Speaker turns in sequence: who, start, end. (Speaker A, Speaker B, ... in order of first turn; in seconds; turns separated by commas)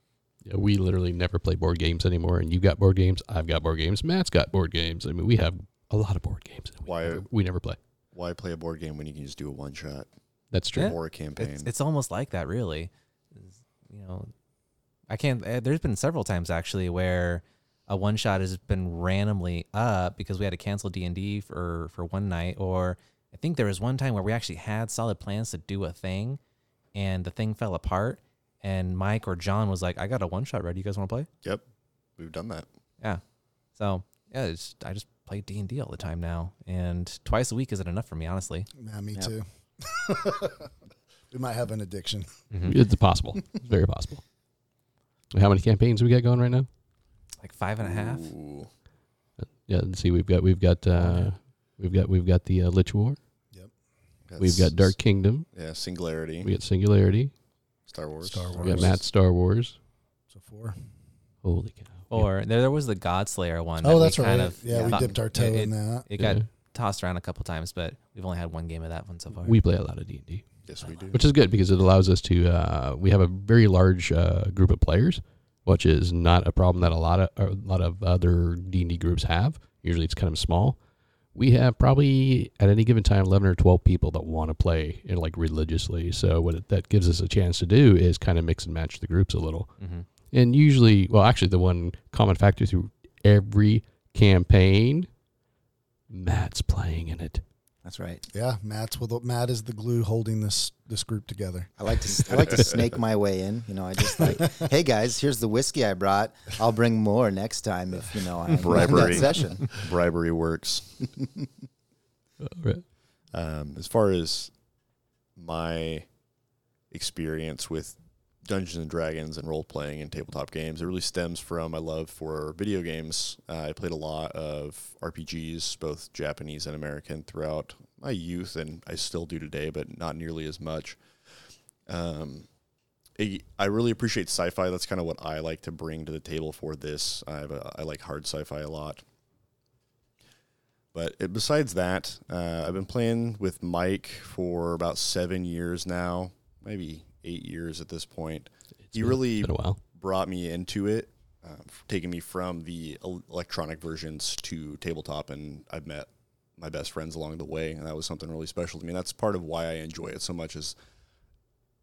Speaker A: 0.4-7.8, Speaker B: 6.9-7.3, Speaker B: 8.1-10.1, Speaker A: 10.5-10.9, Speaker B: 10.7-11.7, Speaker C: 10.8-14.3, Speaker C: 15.1-26.4, Speaker C: 26.9-31.3, Speaker B: 32.2-32.7, Speaker C: 33.8-38.7, Speaker D: 38.8-40.7, Speaker D: 41.3-42.3, Speaker C: 42.5-42.8, Speaker A: 42.6-44.2, Speaker A: 45.3-46.7, Speaker C: 47.4-48.3, Speaker B: 47.8-48.7, Speaker A: 49.4-53.2, Speaker D: 51.0-51.2, Speaker B: 54.2-55.0, Speaker A: 54.4-55.5, Speaker B: 55.5-56.5, Speaker A: 56.4-57.3, Speaker B: 57.9-59.0, Speaker D: 58.2-59.0, Speaker A: 58.6-59.8, Speaker D: 60.3-60.9, Speaker A: 61.4-62.3, Speaker C: 62.1-69.6, Speaker D: 63.8-66.1, Speaker E: 64.7-65.2, Speaker A: 66.2-66.5, Speaker A: 69.4-80.8, Speaker B: 70.6-71.2, Speaker A: 81.3-89.8, Speaker C: 89.8-90.1, Speaker A: 90.3-95.1, Speaker A: 96.1-97.4, Speaker E: 97.8-98.2, Speaker D: 98.3-101.7, Speaker E: 101.8-109.8, Speaker B: 108.5-111.1, Speaker C: 108.8-109.2, Speaker A: 112.4-112.9, Speaker B: 113.3-114.5, Speaker B: 115.4-116.1, Speaker B: 116.9-132.5, Speaker B: 133.2-139.0, Speaker B: 140.9-160.8, Speaker A: 148.9-149.8